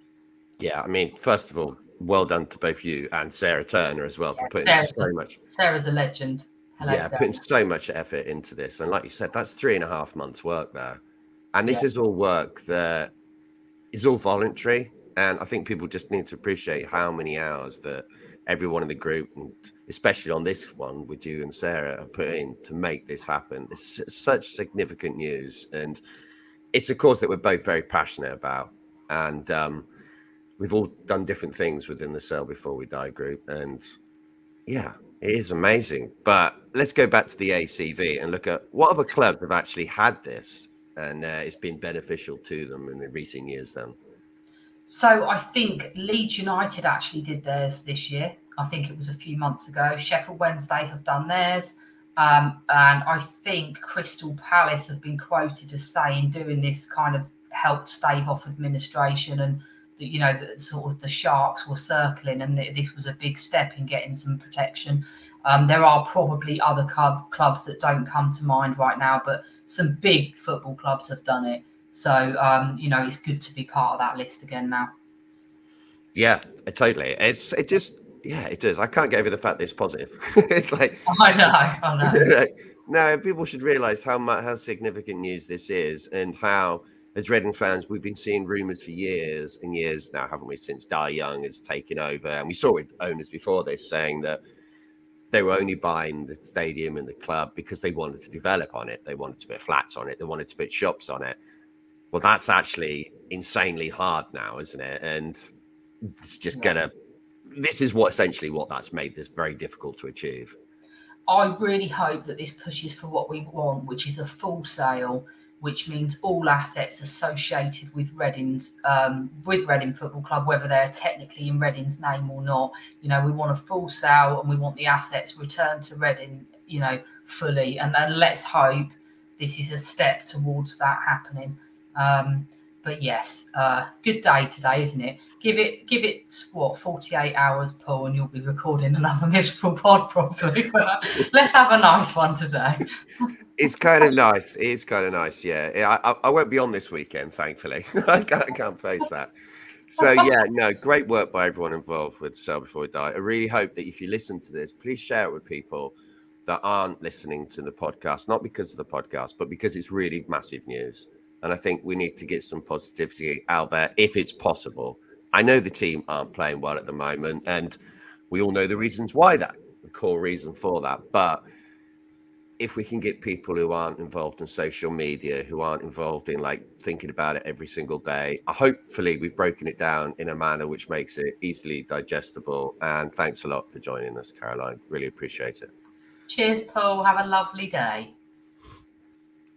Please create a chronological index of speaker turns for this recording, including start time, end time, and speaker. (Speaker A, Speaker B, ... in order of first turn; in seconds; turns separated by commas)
Speaker A: 0.6-5.4, Speaker B: 4.4-7.4, Speaker A: 6.8-11.0, Speaker A: 11.5-13.1, Speaker A: 13.9-26.0, Speaker A: 26.7-29.9, Speaker A: 30.6-33.9, Speaker A: 34.7-43.9, Speaker B: 44.9-74.9, Speaker A: 76.1-81.1, Speaker B: 81.1-82.3, Speaker A: 82.0-94.4, Speaker A: 95.3-101.4, Speaker A: 102.1-105.5, Speaker A: 106.2-106.9, Speaker A: 107.5-110.5, Speaker B: 111.3-143.3, Speaker A: 143.6-149.3, Speaker A: 149.9-155.9, Speaker A: 156.4-167.8, Speaker A: 168.3-171.4, Speaker A: 172.6-185.7, Speaker B: 186.3-188.1